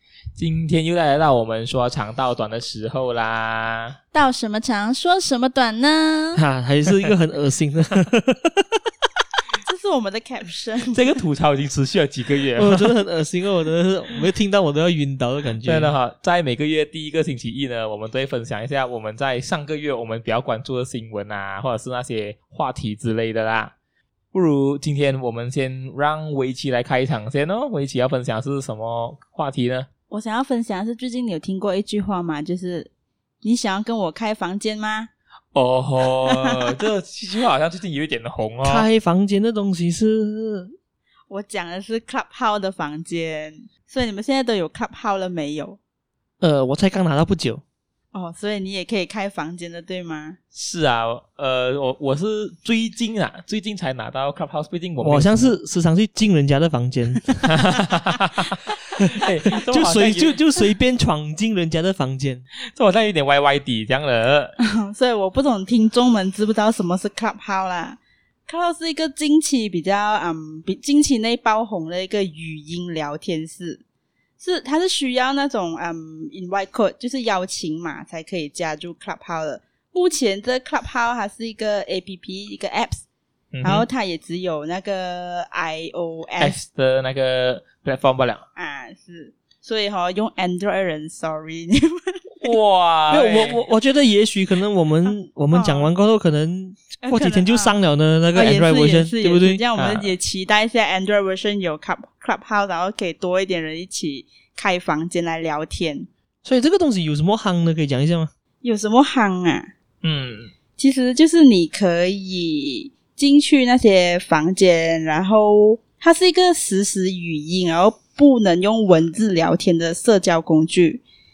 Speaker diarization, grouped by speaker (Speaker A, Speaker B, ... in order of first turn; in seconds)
Speaker A: 0.4-4.0, 10.9-12.9, 15.6-23.7, 24.3-29.9, 35.5-38.9, 50.5-55.5, 57.5-60.4, 62.7-64.5, 83.5-83.8, 86.4-88.4, 92.4-93.6, 99.7-100.1, 110.0-110.5
Speaker B: 4.1-6.4, 9.6-11.0, 30.1-32.9, 33.4-35.1, 36.2-36.7, 41.3-45.8, 48.1-50.4, 64.6-73.8, 74.4-83.0, 83.6-86.6, 88.5-92.5, 95.0-95.9, 97.0-97.8, 98.3-106.1, 108.6-109.7, 110.8-121.0
Speaker C: 6.3-8.8, 12.6-15.9, 38.6-40.7, 46.4-47.6, 55.0-57.5, 59.0-62.4, 93.1-99.6, 106.4-108.3